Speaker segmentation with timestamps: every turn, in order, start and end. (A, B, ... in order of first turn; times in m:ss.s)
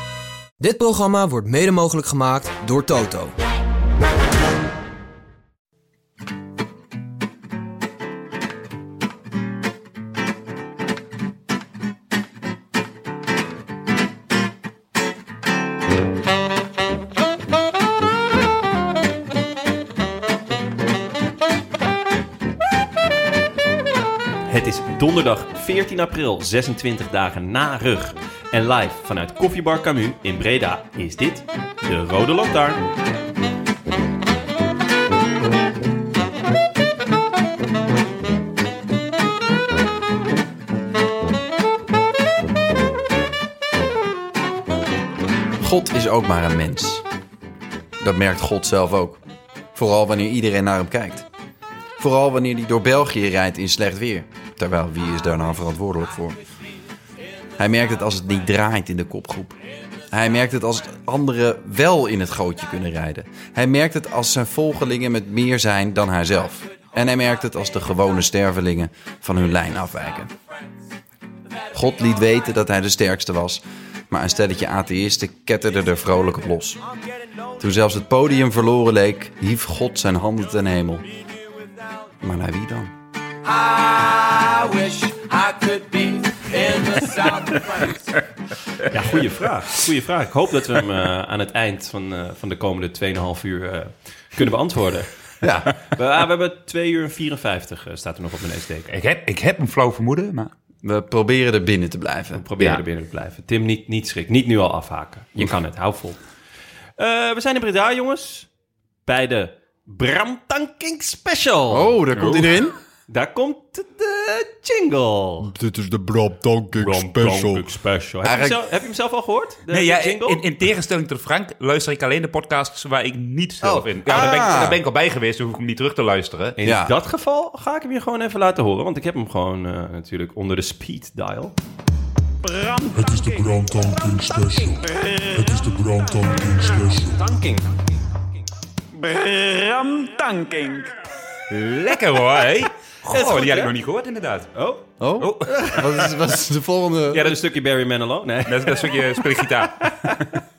0:00.6-0:03.3 A
0:24.4-0:32.8 B
0:45.6-0:47.0 C
0:48.0-0:49.2 C
0:49.7-0:51.2 C
0:52.0-0:56.4 C
0:57.6-0:59.6 C
1:00.1-1:10.3 C
1:11.7-1:16.8 C
1:17.6-1:21.0 C
1:22.2-1:22.9 C
1:23.4-1:28.2 D
1:28.9-1:35.1 B
1:35.4-1:35.8 C
1:35.8-1:38.9 B
1:38.9-1:40.5 E
1:40.8-1:42.4 C
1:42.3-1:46.2 B
1:42.6-1:42.8 E
1:47.0-1:48.5 B
1:49.1-1:52.0 B
1:51.7-1:52.8 C
1:52.1-1:52.6 E
1:53.1-1:55.5 B
1:55.4-1:57.6 C
1:56.8-2:00.4 B
1:58.2-1:58.6 C
1:59.7-2:06.6 E
2:03.7-2:04.8 C
2:06.6-2:11.6 B
2:06.6-2:06.9 C
2:12.4-2:13.4 E
2:13.0-2:14.3 F
2:14.9-2:15.6 B
2:15.6-2:17.0 F
2:17.2-2:17.6 B
2:19.0-2:20.1 B
2:20.2-2:20.9 E
2:21.5-2:24.6 E
2:23.1-2:23.7 B
2:24.6-2:24.9 B
2:25.0-2:27.4 C
2:25.2-2:26.2 E
2:27.1-2:30.4 B
2:28.4-2:30.2 E